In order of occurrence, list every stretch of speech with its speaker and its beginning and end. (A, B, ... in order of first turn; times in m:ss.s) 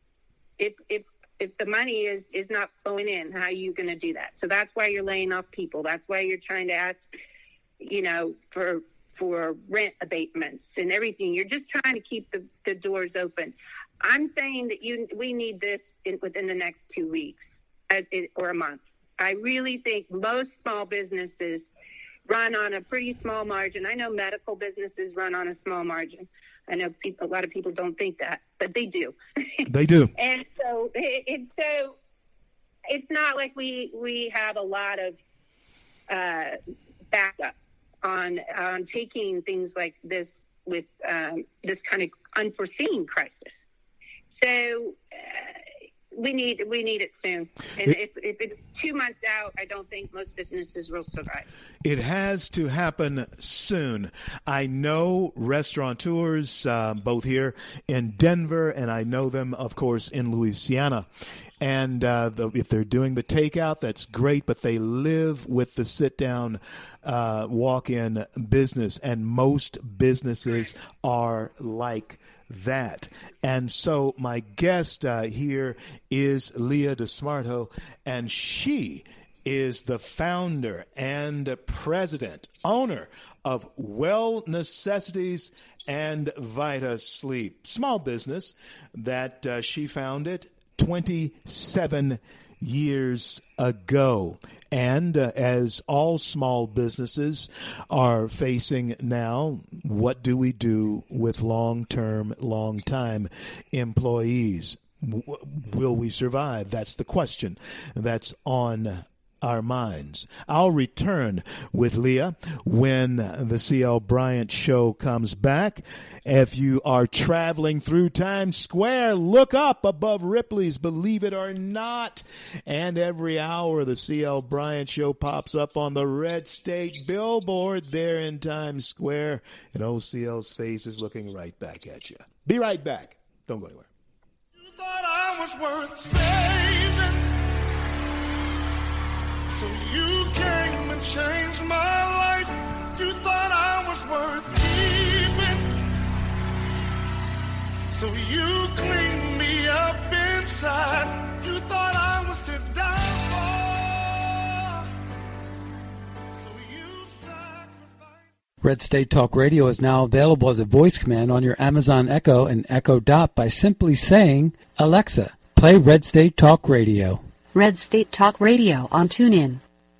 0:00.6-0:07.1 A
0:07.8-0:21.7 A
0:22.3-0:32.0 A
0:29.7-0:30.1 B
0:32.9-0:35.2 A
0:36.1-0:36.6 A
0:37.1-0:43.6 A
0:44.3-0:45.6 A
0:46.1-0:51.5 A
0:51.8-1:01.1 B
1:01.6-2:13.9 B
2:14.6-2:17.4 C
2:19.5-2:25.8 C
2:27.9-2:34.9 C
2:36.3-2:38.3 C
2:38.6-2:47.2 D
2:47.5-2:49.6 E